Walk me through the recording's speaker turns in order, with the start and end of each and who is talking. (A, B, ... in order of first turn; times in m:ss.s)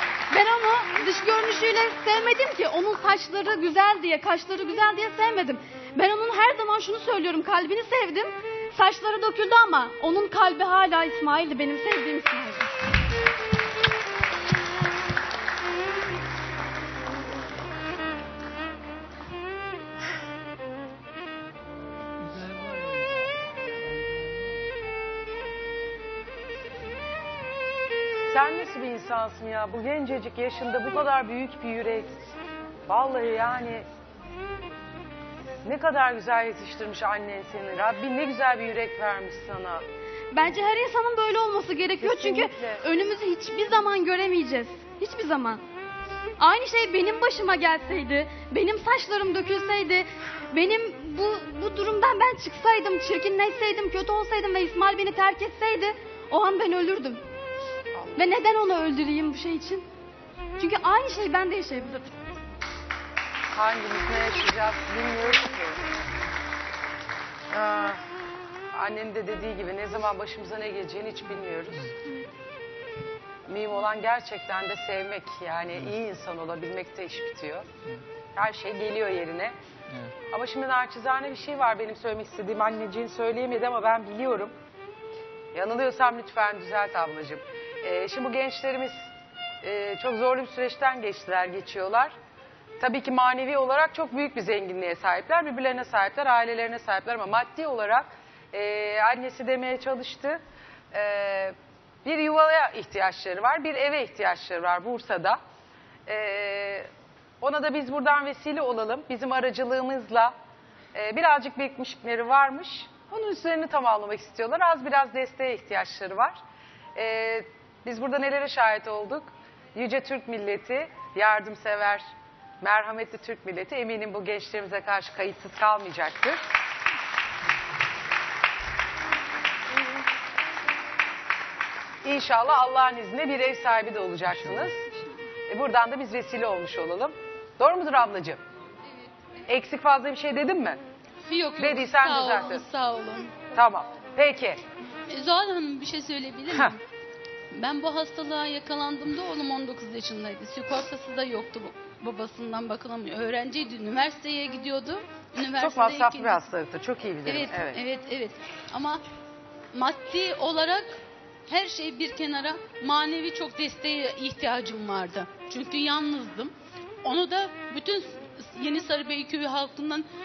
0:00.3-0:12.8 A
0:28.3-0:32.2 B
0:32.9-0:33.9 B
0:35.6-0:39.8 B
0:40.3-0:45.6 A
0:42.0-0:42.8 B
0:46.4-0:57.2 A
0:57.9-0:58.4 B
0:58.2-0:59.8 A
1:00.6-1:02.1 A
1:03.6-1:05.8 B
1:07.5-1:08.0 B
1:08.7-1:11.9 B
1:13.5-1:17.7 B
1:18.4-1:19.6 B
1:20.3-1:24.6 B
1:25.5-1:29.1 B
1:29.6-1:32.2 B
1:32.8-1:40.4 B
1:40.9-1:45.4 B
1:46.1-1:46.9 B
1:47.4-1:50.3 B
1:50.9-1:56.4 B
1:57.0-2:02.1 B
2:02.6-2:06.4 B
2:12.0-2:14.9 B
2:15.5-2:18.4 B
2:19.5-2:20.8 B
2:21.3-2:23.4 C
2:21.6-2:22.6 B
2:23.5-2:24.6 B
2:25.1-2:26.8 C
2:27.5-2:36.5 C
2:35.6-2:37.8 B
2:37.2-2:39.0 C
2:39.7-2:46.5 C
2:47.0-2:50.1 C